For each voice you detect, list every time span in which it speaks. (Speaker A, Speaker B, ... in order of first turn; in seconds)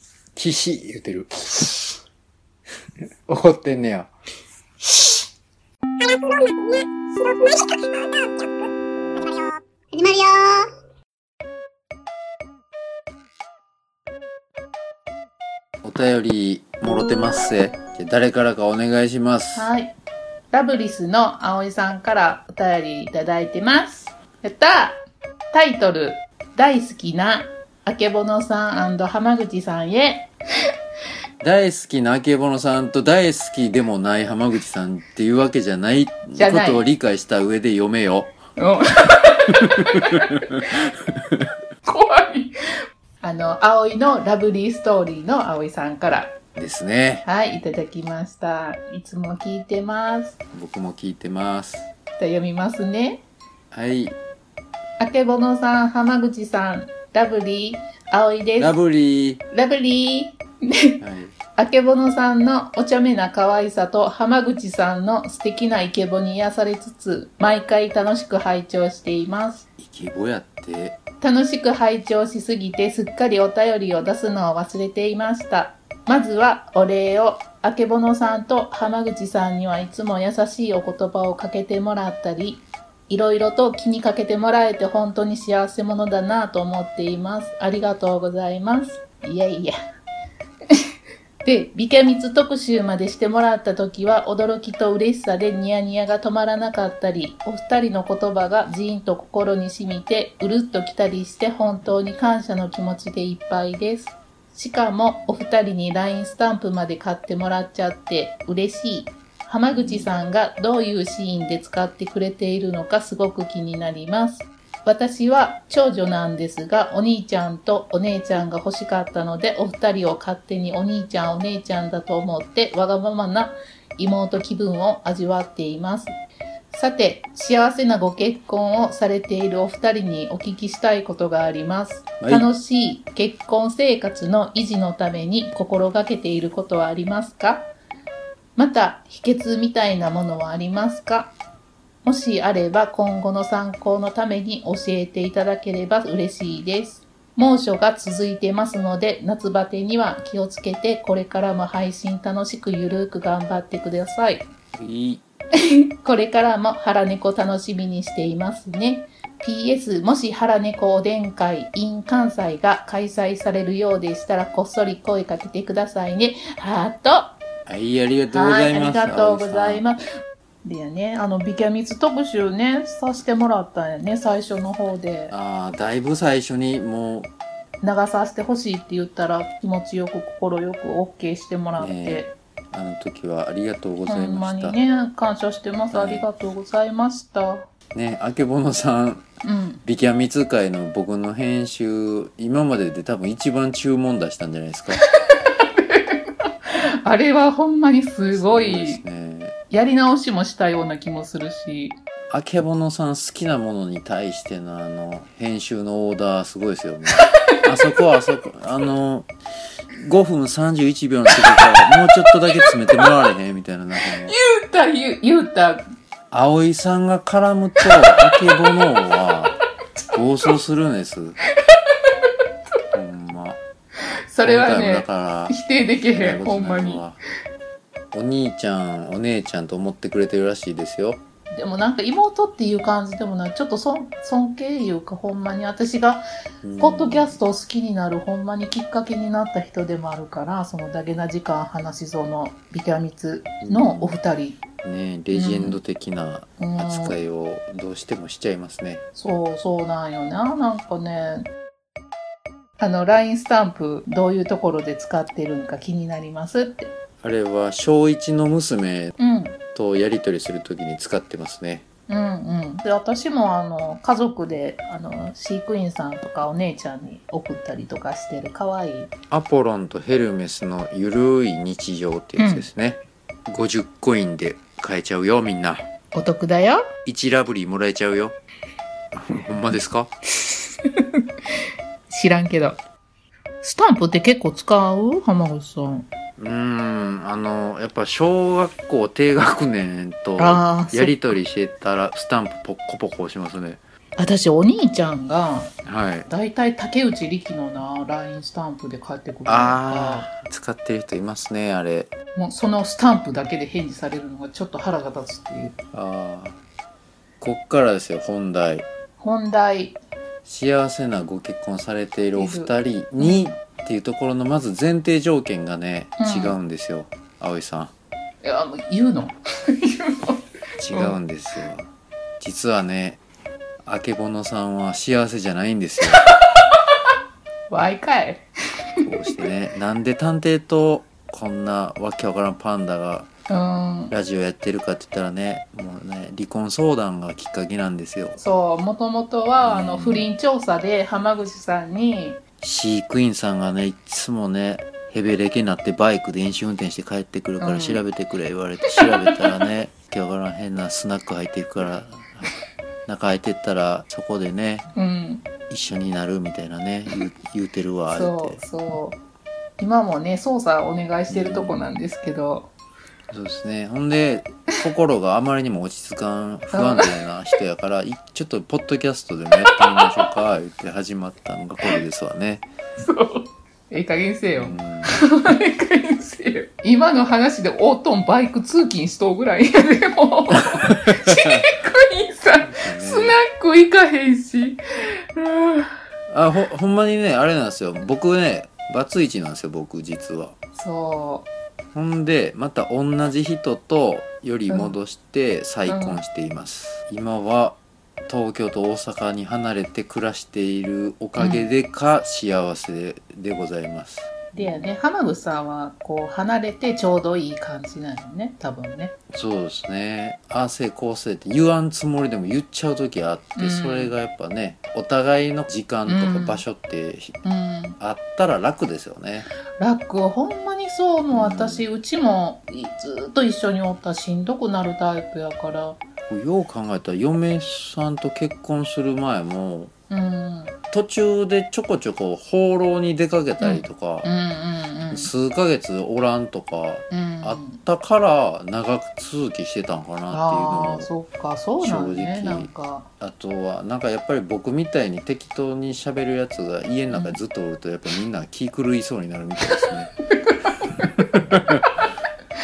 Speaker A: 0.3-1.9, 3.3-4.1, 15.8-19.7, 31.4-38.4, 40.0-40.6, 41.1-41.4, 46.5-47.2, 50.5-51.9, 53.7-54.2, 58.6-59.4, 61.0-61.3, 69.8-71.0, 109.7-110.1, 132.2-132.5, 154.8-155.2, 167.7-169.8, 175.3-177.3, 181.8-184.8, 185.9-186.2, 187.9-189.2, 189.8-195.0, 198.3-199.5, 202.3-209.3, 210.0-214.3, 216.3-219.5, 220.1-221.4, 222.9-223.6, 224.4-225.6, 226.1-227.2, 228.1-231.2, 236.6-237.4, 243.6-244.1, 244.8-249.0, 257.2-259.1, 259.7-261.8, 269.3-275.9, 277.0-278.4, 279.1-280.1, 286.4-293.8, 295.8-296.3, 299.5-302.1, 305.9-306.6, 307.4-308.9, 310.4-317.9, 320.8-323.2, 323.8-326.2, 329.0-333.3, 334.1-338.4, 339.6-340.3, 342.6-352.5, 353.1-354.9, 355.7-358.6, 361.3-361.8, 363.3-372.6, 374.5-375.1, 382.6-383.4, 386.3-390.5, 391.9-404.3, 409.3-417.4, 418.0-419.4, 421.3-421.9, 426.3-429.9, 430.9-434.3, 435.1-441.1, 441.8-450.1, 451.4-451.8
Speaker B: 19.5-19.9, 20.5-30.3, 36.3-36.9, 38.6-40.2, 41.8-42.5, 43.2-46.4, 47.2-50.4, 52.2-53.2, 55.0-58.8, 59.5-60.4, 61.6-69.7, 71.2-89.7, 91.4-126.2, 126.7-137.7, 138.6-141.3, 142.0-154.5, 156.0-167.3, 168.3-170.0, 170.6-175.3, 177.8-182.3, 184.1-187.7, 189.4-189.8, 195.0-196.2, 197.0-199.0, 199.7-202.0, 212.5-213.1, 214.2-215.8, 224.3-227.1, 231.5-236.2, 236.8-244.6, 245.3-245.8, 246.6-247.2, 249.1-251.5, 252.8-256.9, 259.2-259.6, 262.1-269.1, 272.4-272.7, 276.1-276.8, 282.1-282.8, 283.6-286.1, 290.4-291.3, 294.2-295.7, 296.3-300.3, 302.4-305.7, 309.2-310.0, 312.3-313.5, 316.2-316.6, 318.4-320.4, 320.9-321.2, 327.7-328.4, 333.5-334.1, 338.4-342.4, 347.6-348.0, 349.0-349.3, 354.9-355.5, 358.1-359.2, 359.8-362.7, 366.7-367.0, 373.0-384.8, 385.3-385.9, 390.7-391.5, 394.7-394.9, 395.9-396.2, 401.4-401.7, 404.5-409.1, 413.6-414.1, 416.1-416.6, 417.4-418.0, 419.8-426.0, 430.1-430.7, 433.6-435.3, 437.1-437.8, 440.3-443.1, 447.1-447.4, 450.4-451.0